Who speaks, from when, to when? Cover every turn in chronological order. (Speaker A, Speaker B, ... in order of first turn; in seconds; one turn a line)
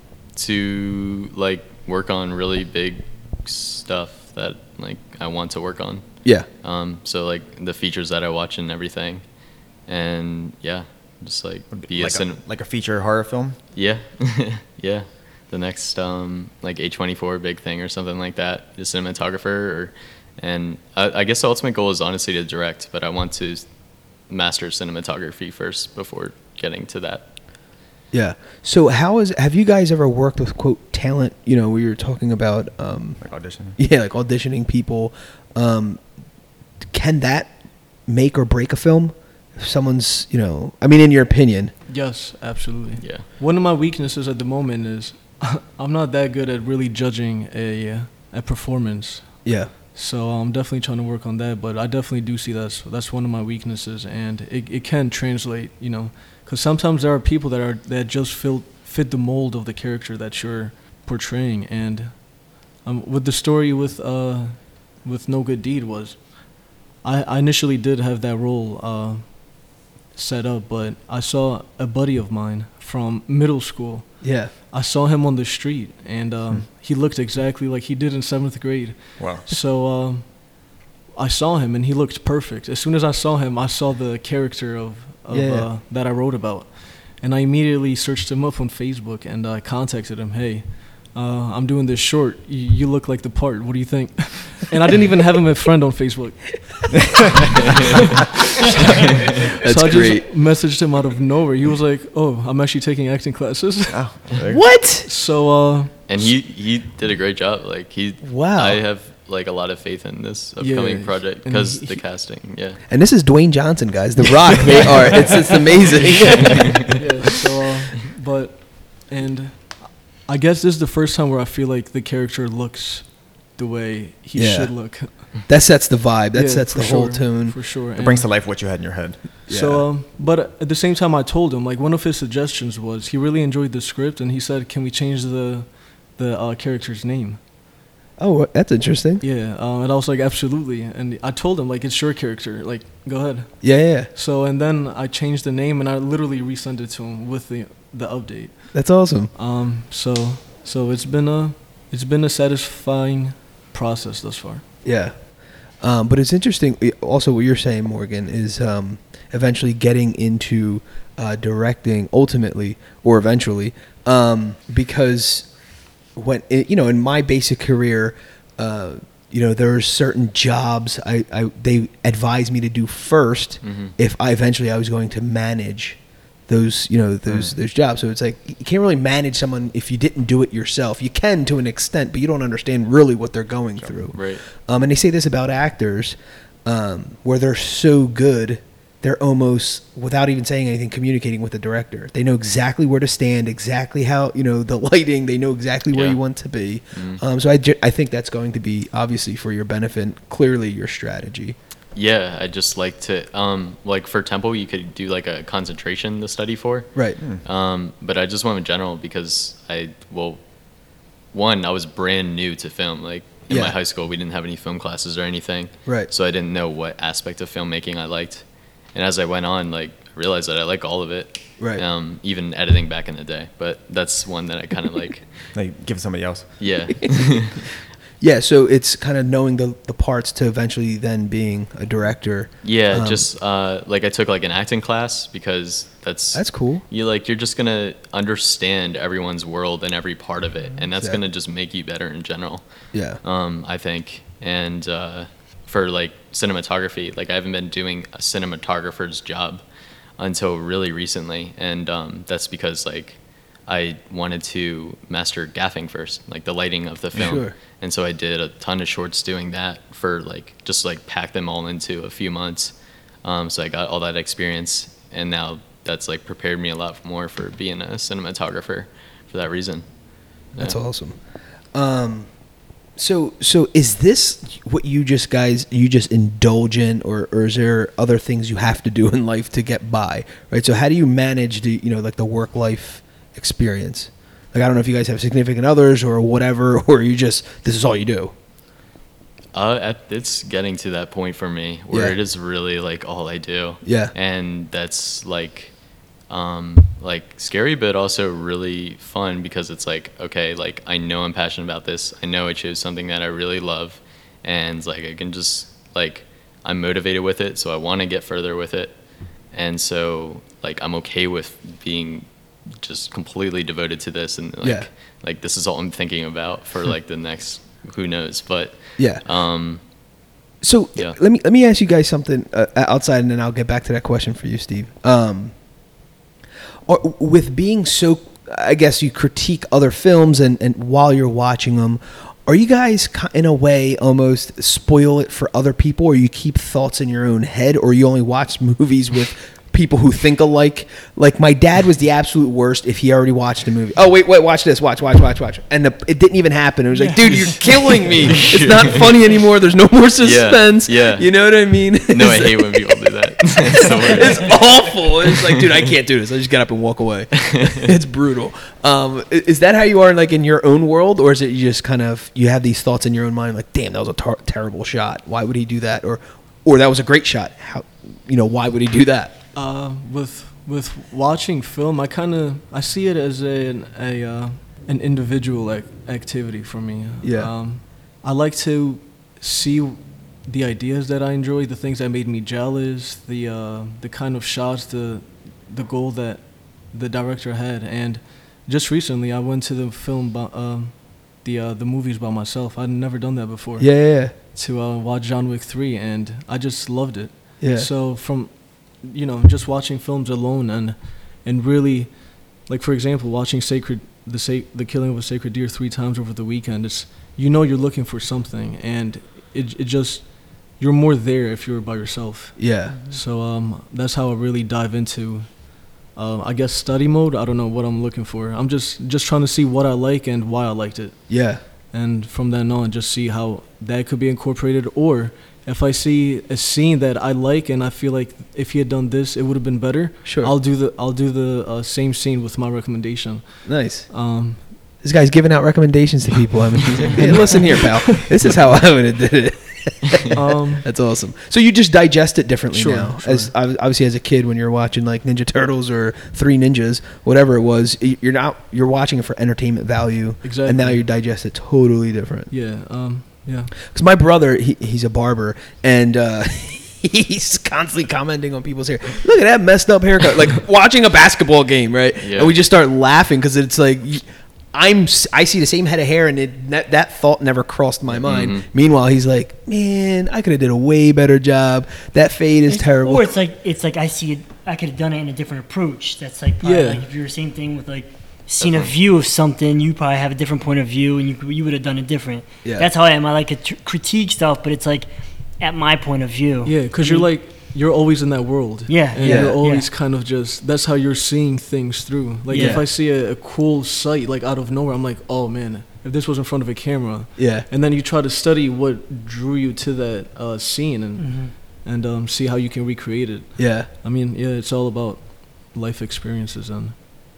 Speaker A: 0.3-12.4
Speaker B: 11.7-13.6
Speaker A: 13.7-27.3
Speaker C: 28.1-36.2
Speaker B: 33.2-33.8
Speaker C: 36.8-41.7
Speaker D: 41.9-96.8
Speaker A: 43.0-43.2
Speaker C: 49.4-49.7
Speaker C: 74.2-74.5
Speaker B: 79.2-79.5
Speaker C: 85.3-85.7
Speaker D: 98.0-104.4
Speaker C: 99.6-100.3
Speaker B: 103.9-104.8
Speaker C: 104.5-105.1
Speaker D: 105.0-106.3
Speaker A: 106.1-112.8
Speaker C: 108.2-108.8
Speaker D: 110.6-112.0
Speaker C: 112.9-116.9
Speaker D: 116.9-125.4
Speaker C: 124.3-127.6
Speaker D: 126.3-128.3
Speaker B: 127.9-129.3
Speaker C: 129.5-129.8
Speaker D: 129.5-137.4
Speaker C: 138.2-139.2
Speaker D: 139.2-154.6
Speaker C: 143.6-144.1
Speaker C: 148.7-149.3
Speaker C: 154.8-201.6
Speaker A: 173.6-173.9
Speaker B: 177.3-177.6
Speaker A: 184.1-184.4
Speaker A: 195.9-196.2
Speaker A: 196.9-197.2
Speaker A: 201.9-225.5
Speaker C: 213.5-213.7
Speaker B: 225.5-226.9
Speaker A: 226.6-227.6
Speaker C: 227.1-227.6
Speaker C: 228.2-233.3
Speaker A: 232.6-270.8
Speaker C: 236.3-236.8
Speaker C: 242.9-243.2
Speaker B: 257.1-257.4
Speaker C: 257.2-257.5
Speaker C: 270.6-288.3
Speaker A: 289.5-319.8
Speaker C: 293.8-294.1
Speaker C: 314.6-314.9
Speaker C: 319.0-319.2
Speaker C: 320.6-325.9
Speaker C: 326.9-369.3
Speaker E: 346.9-348.1
Speaker A: 348.2-349.0
Speaker A: 350.2-354.7
Speaker D: 369.5-434.7
Speaker C: 377.2-377.5
Speaker C: 393.8-394.3
Speaker C: 397.6-397.9
Speaker C: 412.6-412.9
Speaker E: 412.8-413.2
Speaker C: 421.3-421.6
Speaker C: 430.2-430.5
Speaker C: 433.6-452.5
Speaker D: 437.1-438.0
Speaker D: 440.3-440.9
Speaker D: 442.7-443.5
Speaker D: 450.4-451.0
Speaker D: 452.5-453.7
Speaker C: 453.8-473.3
Speaker A: 462.2-462.5
Speaker A: 468.2-468.6
Speaker E: 472.7-487.3
Speaker D: 476.6-477.0
Speaker A: 478.6-478.9
Speaker C: 482.6-482.9
Speaker D: 486.6-506.9
Speaker E: 488.9-489.9
Speaker C: 489.2-489.6
Speaker E: 492.5-492.9
Speaker C: 492.5-492.9
Speaker C: 497.4-497.7
Speaker E: 501.2-501.6
Speaker C: 503.6-503.9